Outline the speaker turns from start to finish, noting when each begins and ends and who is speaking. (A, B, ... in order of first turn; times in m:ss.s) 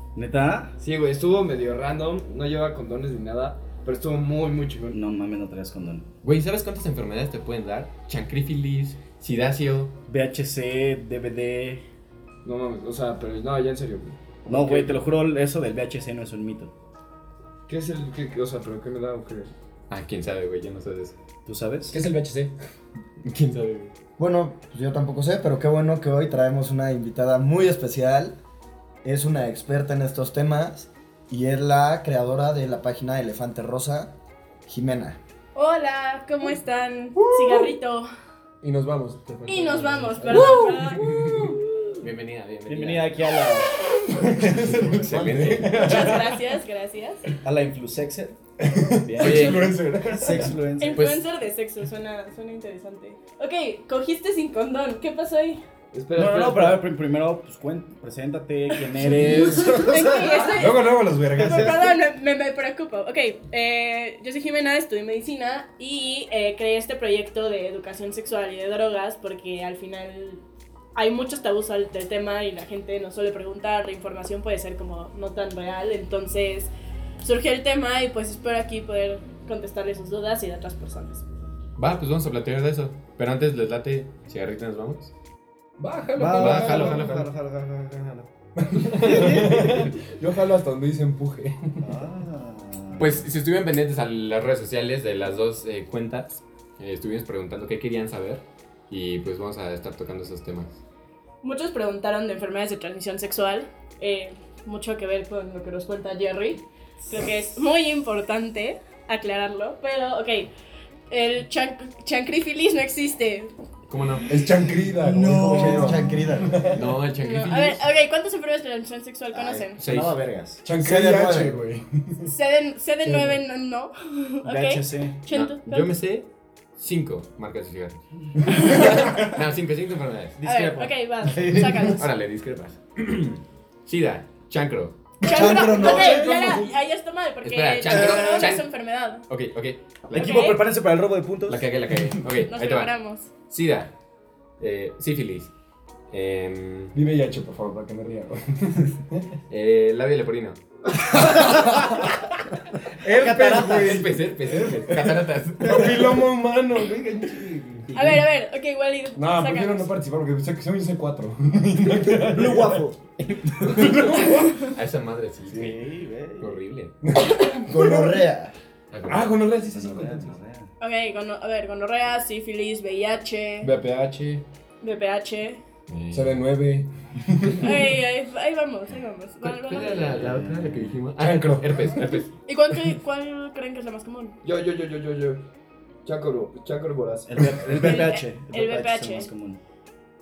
0:00.2-0:00.8 A
0:00.8-0:05.0 B
0:04.9-0:06.1 A
0:06.2-0:09.9 C
0:10.1-0:11.8 A
0:12.4-0:15.0 B
0:14.5-0:16.7 A
0:17.7-0:19.5 B
0:19.9-0:21.2 C
0:21.5-0:22.0 A
0:21.9-0:22.5 D
0:23.2-0:23.9 C
0:24.2-0:28.4 E
0:29.0-0:34.2 E
0:34.7-0:35.2 E
0:35.6-0:38.1 F
0:37.2-0:37.7 D
0:38.6-0:41.6 D
0:39.5-0:41.3 F
0:42.0-0:43.3 C
0:42.7-0:43.7 A
0:43.7-0:46.4 D
0:44.4-0:46.1 C
0:45.8-0:47.2 F
0:47.4-0:48.4 A
0:48.6-0:50.6 D
0:49.0-0:51.1 A
0:49.2-0:49.8 C
0:50.8-0:55.6 F
0:50.9-0:51.3 C
0:55.9-0:56.8 B
0:56.2-1:00.2 A
0:58.9-1:01.9 D
0:59.7-1:10.4 F
1:11.0-1:16.7 F
1:17.2-1:21.2 F
1:21.8-1:25.1 C
1:25.8-1:27.2 D
1:26.1-1:28.3 A
1:26.4-1:27.3 C
1:28.6-1:31.9 D
1:29.0-1:29.8 A
1:31.8-1:33.2 A
1:33.0-1:40.8 C
1:41.4-1:50.5 F
1:51.1-1:53.5 F
1:53.9-1:54.4 C
1:54.3-1:56.9 D
1:55.0-1:56.2 A
1:55.1-1:56.8 E
1:56.8-1:57.8 C
1:57.2-1:59.8 F
1:59.5-2:00.2 C
1:59.8-2:00.6 A
2:00.6-2:02.3 D
2:00.8-2:01.6 E
2:02.2-2:05.9 F
2:03.0-2:03.4 D
2:04.4-2:05.2 A
2:05.3-2:10.4 C
2:08.4-2:09.3 D
2:10.4-2:12.0 A
2:10.4-2:12.0 F
2:11.9-2:15.0 C
2:15.2-2:19.3 F
2:15.2-2:16.3 E
2:15.2-2:16.7 D
2:17.4-2:18.7 C
2:19.2-2:20.6 C
2:20.1-2:21.7 A
2:20.1-2:20.6 F
2:21.5-2:22.9 C
2:22.5-2:23.3 F
2:23.5-2:23.9 C
2:24.6-2:25.5 C
2:26.1-2:26.9 C
2:26.9-2:29.3 D
2:29.5-2:30.6 C
2:31.0-2:32.2 D
2:31.2-2:31.9 A
2:32.9-2:38.2 D
2:33.0-2:34.1 A
2:33.6-2:36.1 C
2:37.9-2:39.9 F
2:39.2-2:42.9 D
2:42.4-2:44.0 A
2:42.4-2:42.9 E
2:43.7-2:44.7 D
2:44.2-2:45.8 C
2:45.5-2:46.6 A
2:46.4-2:46.9 C
2:47.0-2:48.2 D
2:47.7-2:48.5 E
2:48.9-2:49.4 C
2:49.0-2:50.3 D
2:49.7-2:50.7 A
2:50.8-2:53.7 F
2:53.6-2:54.4 D
2:54.8-2:55.6 F
2:55.9-2:56.4 C
2:56.1-2:57.9 D
2:57.6-3:00.2 F
2:59.4-3:02.3 C
2:59.9-3:00.9 A
3:01.2-3:02.1 D
3:02.5-3:04.4 F
3:04.4-3:05.4 B
3:06.0-3:07.5 B
3:07.3-3:09.6 A
3:07.7-3:09.3 F